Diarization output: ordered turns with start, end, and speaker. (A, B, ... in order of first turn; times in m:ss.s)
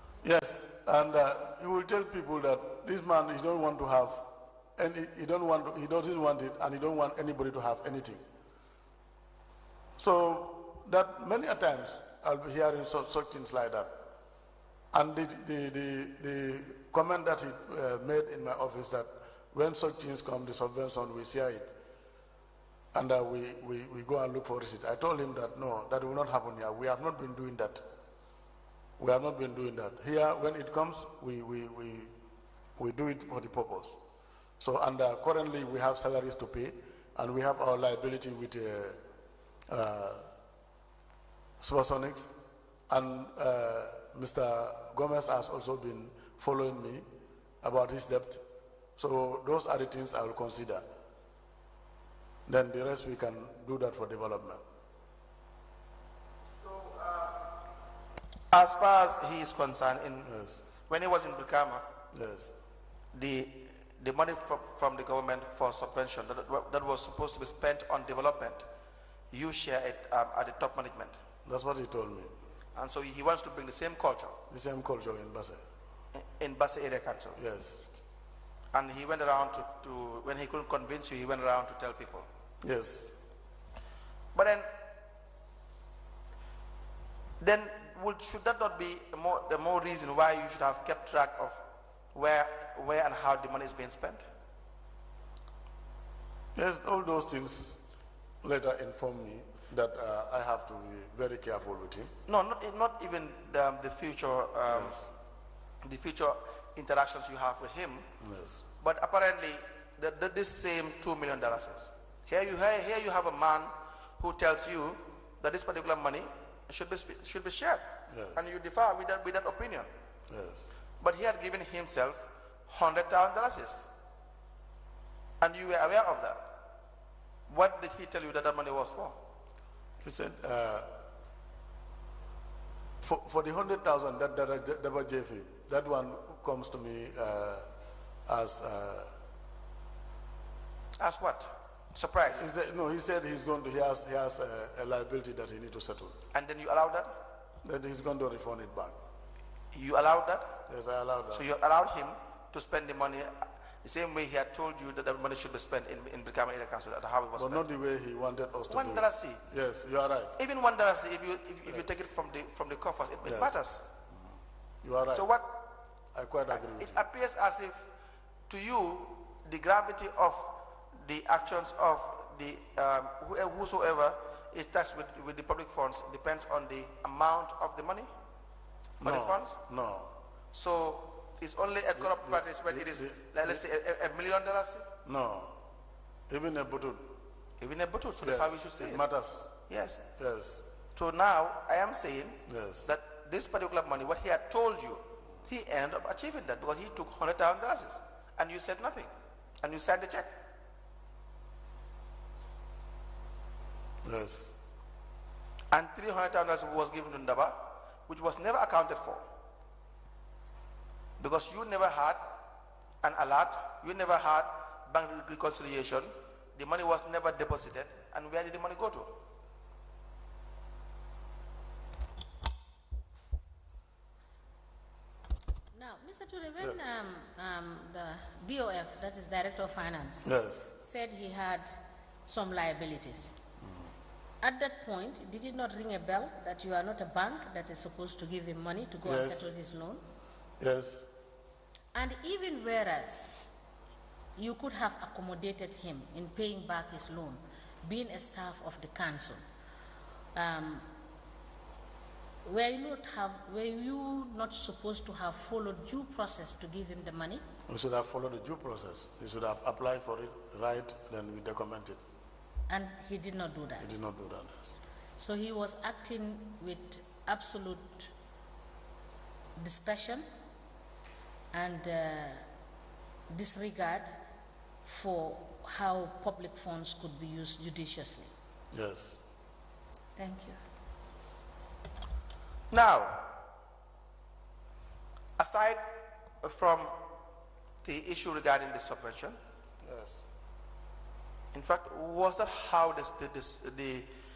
0:00.2-0:04.2 A
0:04.8-0:08.2 A
0:10.0-0:13.9 A
0:14.9-0:21.7 A
0:22.9-0:27.8 A
0:29.0-0:32.1 A
0:32.8-0:34.0 A
0:34.6-0:39.0 A
0:39.7-0:40.3 A
0:41.6-0:42.4 A
0:42.9-0:47.0 A
0:47.6-0:48.4 A
0:49.0-0:50.8 A
0:52.5-0:54.6 A
0:56.6-0:57.4 B
0:58.5-1:00.3 B
1:00.2-1:00.6 A
1:00.9-1:01.8 B
1:02.1-1:02.5 A
1:03.1-1:08.6 B
1:09.3-1:11.2 B
1:11.4-1:12.3 A
1:12.8-1:14.4 B
1:14.5-1:15.6 A
1:16.2-1:17.4 B
1:17.4-1:17.8 A
1:18.7-1:22.3 B
1:22.6-1:23.1 A
1:24.3-1:24.7 B
1:27.4-1:31.6 B
1:32.1-1:34.2 B
1:36.5-1:37.8 A
1:38.4-1:42.1 A
1:42.3-1:45.0 B
1:44.7-1:45.1 A
1:45.8-1:48.0 B
1:48.2-1:48.6 A
1:48.8-1:59.9 B
1:58.1-1:58.5 A
2:00.3-2:00.7 A
2:01.0-2:03.9 B
2:05.4-2:06.5 B
2:07.5-2:09.2 B
2:10.0-2:10.9 A
2:13.0-2:17.6 A
2:18.3-2:19.1 A
2:21.0-2:22.5 B
2:22.2-2:26.2 A
2:26.3-2:27.1 B
2:27.6-2:29.0 A
2:29.7-2:30.6 B
2:30.7-2:31.4 A
2:31.3-2:37.7 B
2:37.4-2:40.4 A
2:38.7-2:39.4 B
2:40.4-2:43.8 B
2:43.2-2:43.5 A
2:44.8-2:45.3 A
2:45.1-2:45.5 B
2:46.1-2:47.0 A
2:46.5-2:47.8 B
2:48.5-2:58.1 B
2:59.0-2:59.6 B
2:59.0-3:00.1 A
3:00.5-3:04.9 B
3:02.0-3:03.6 A
3:05.0-3:05.6 A
3:06.3-3:07.1 A
3:07.6-3:09.0 B
3:08.2-3:09.5 A
3:09.7-3:10.0 B
3:10.2-3:10.6 A
3:10.9-3:20.3 B
3:12.5-3:12.9 A
3:24.0-3:24.6 A
3:25.7-3:29.2 B
3:31.2-3:32.2 B
3:33.0-3:39.2 B
3:45.7-3:53.3 C
3:50.2-3:50.7 A
3:54.4-4:00.0 C
3:59.0-3:59.5 A
4:00.6-4:01.1 A
4:01.9-4:03.4 C
4:04.4-4:09.4 C
4:10.3-4:10.8 C
4:12.4-4:17.4 C
4:17.7-4:22.0 A
4:22.7-4:23.9 C
4:23.8-4:24.7 A
4:25.2-4:28.1 C
4:29.6-4:30.2 C
4:31.5-4:32.4 C
4:33.3-4:34.1 C
4:34.8-4:38.3 C
4:38.7-4:39.2 A
4:40.2-4:40.6 C
4:42.7-4:43.3 B
4:45.4-4:45.8 B
4:46.4-4:47.0 B
4:47.8-4:49.4 B
4:49.8-4:50.2 A
4:51.5-4:54.1 B